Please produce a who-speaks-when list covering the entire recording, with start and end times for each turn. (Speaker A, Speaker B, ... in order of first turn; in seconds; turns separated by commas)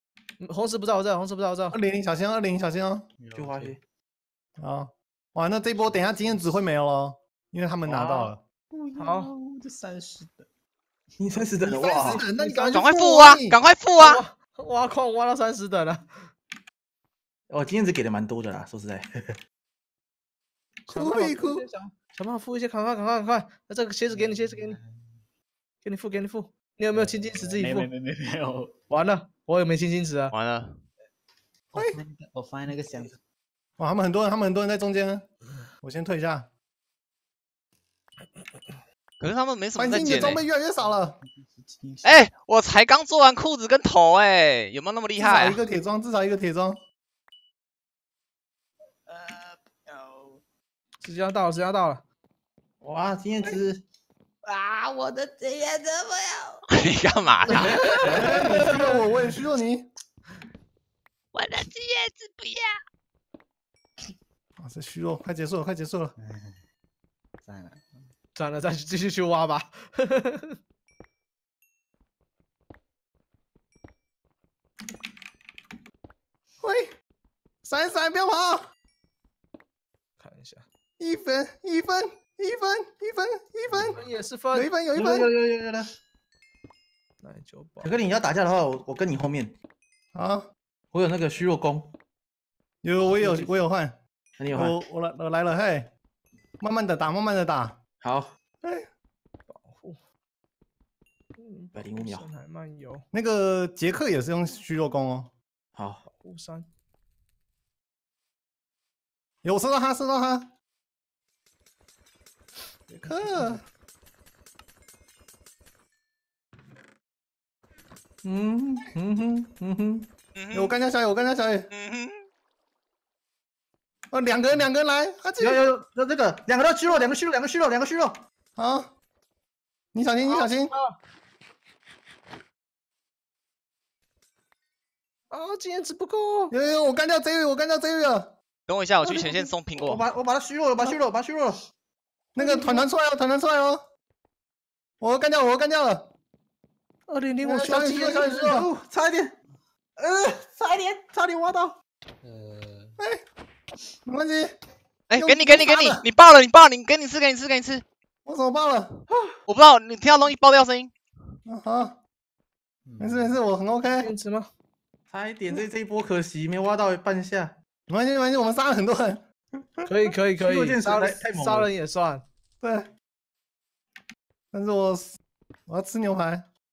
Speaker A: 0.4-1.8, Speaker B: 1.7-3.1, Speaker C: 3.2-3.8, Speaker D: 3.3-3.8, Speaker B: 4.6-8.4, Speaker C: 6.2-6.6, Speaker D: 7.8-8.3, Speaker C: 8.7-10.5, Speaker A: 8.9-9.3, Speaker D: 11.2-12.2, Speaker B: 11.6-13.6, Speaker A: 12.3-12.7, Speaker E: 12.7-14.2, Speaker A: 14.0-16.3, Speaker D: 17.5-19.4, Speaker A: 20.9-24.8, Speaker B: 20.9-21.7, Speaker C: 24.1-25.2, Speaker A: 25.8-27.9, Speaker C: 26.9-28.8, Speaker A: 28.9-30.3, Speaker E: 30.3-30.8, Speaker C: 31.7-33.2, Speaker B: 33.8-35.2, Speaker B: 35.8-36.5, Speaker E: 39.2-40.4, Speaker B: 39.8-41.2, Speaker C: 40.1-42.3, Speaker E: 42.0-45.6, Speaker B: 45.2-46.8, Speaker C: 49.1-50.4, Speaker A: 51.0-52.0, Speaker D: 52.8-53.8, Speaker C: 54.5-56.6, Speaker E: 56.7-58.2, Speaker D: 57.5-58.4, Speaker B: 58.0-59.9, Speaker E: 61.3-62.7, Speaker B: 64.6-66.1, Speaker C: 66.2-66.6, Speaker C: 67.4-68.1, Speaker A: 68.3-70.6, Speaker B: 76.6-76.9, Speaker B: 77.6-78.6, Speaker A: 80.2-80.7, Speaker B: 81.0-84.0, Speaker A: 84.0-84.7, Speaker B: 84.5-85.3, Speaker D: 84.9-85.9, Speaker A: 87.2-87.9, Speaker D: 87.8-89.5, Speaker B: 90.1-90.5, Speaker D: 90.9-91.9, Speaker B: 92.8-94.0, Speaker D: 93.1-93.5, Speaker D: 94.4-94.8, Speaker B: 94.5-95.9, Speaker B: 96.6-97.8, Speaker D: 98.0-98.3, Speaker B: 98.6-98.9, Speaker A: 99.5-100.0, Speaker A: 101.4-103.0, Speaker D: 101.7-102.3, Speaker B: 103.1-105.3, Speaker D: 105.8-106.0, Speaker A: 106.1-106.7, Speaker B: 109.4-110.5, Speaker A: 112.9-113.6, Speaker B: 113.0-113.6, Speaker D: 118.2-120.1, Speaker E: 120.3-120.7, Speaker B: 120.5-121.7, Speaker E: 121.7-122.2, Speaker B: 124.1-125.6, Speaker D: 125.4-128.2, Speaker B: 128.6-128.9, Speaker B: 129.9-130.7, Speaker A: 130.3-131.0, Speaker A: 135.3-136.5, Speaker B: 136.5-138.3, Speaker E: 138.7-140.1, Speaker D: 139.0-141.6, Speaker B: 142.3-143.8, Speaker B: 145.0-146.1, Speaker A: 147.1-148.1, Speaker B: 147.4-148.7, Speaker D: 148.1-149.4, Speaker D: 150.0-151.8, Speaker C: 152.2-153.0, Speaker B: 153.0-153.2, Speaker B: 154.0-154.6, Speaker E: 155.1-157.8, Speaker B: 155.2-156.0, Speaker B: 158.2-158.9, Speaker E: 159.5-160.9, Speaker B: 161.5-162.0, Speaker C: 162.8-163.4, Speaker B: 163.0-164.1, Speaker A: 164.0-164.5, Speaker D: 165.1-167.6, Speaker B: 167.9-169.9, Speaker A: 169.8-172.2, Speaker D: 170.3-171.7, Speaker B: 172.6-172.9, Speaker B: 174.5-176.5